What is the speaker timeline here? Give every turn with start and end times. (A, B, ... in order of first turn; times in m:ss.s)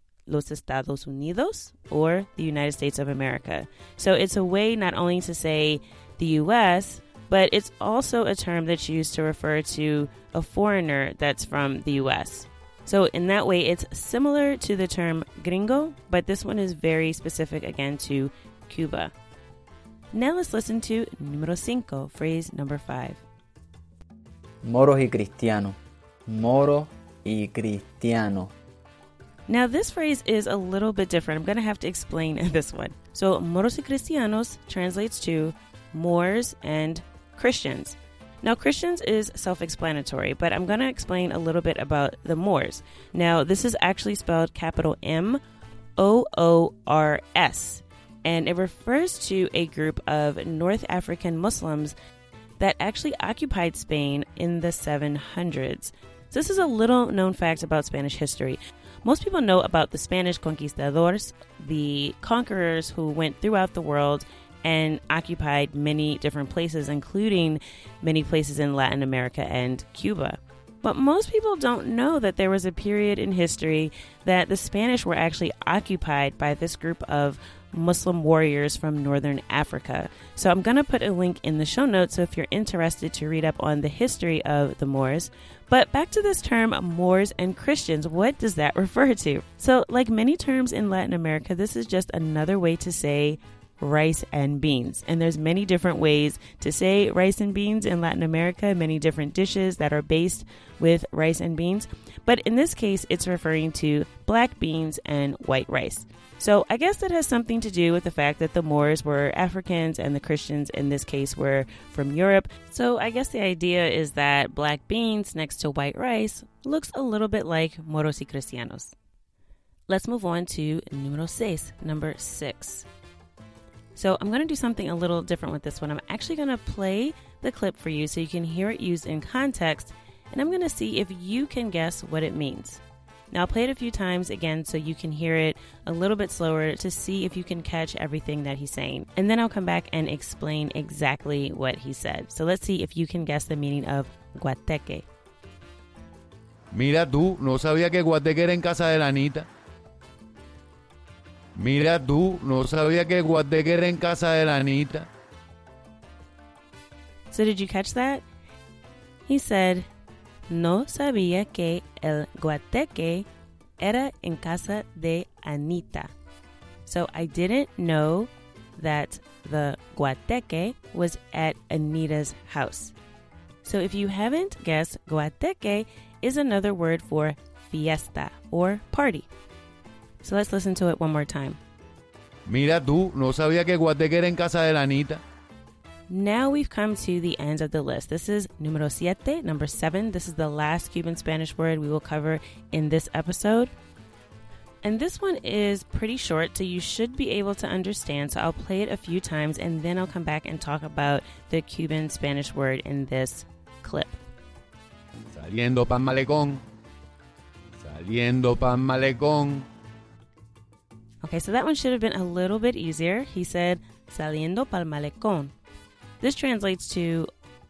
0:00.3-0:19.1 A
0:20.1-0:23.2 A
0:24.6-0:28.5 B
0:29.5-0:45.4 A
0:46.0-0:51.9 A
0:52.6-1:58.9 A
1:59.9-2:02.9 A
2:04.0-2:25.0 A
2:26.7-2:29.5 C
2:31.6-2:35.1 C
2:37.3-2:38.2 A
2:39.3-2:39.9 A
2:40.5-2:43.3 A
2:43.8-2:46.1 A
2:46.9-2:52.9 A
2:53.6-2:59.3 A
3:00.2-3:01.6 A
3:02.5-3:05.2 C
3:06.1-3:13.7 A
3:14.8-3:24.2 A
3:25.3-3:26.6 C
3:27.8-3:29.7 C
3:31.2-3:35.5 A
3:36.2-3:37.3 A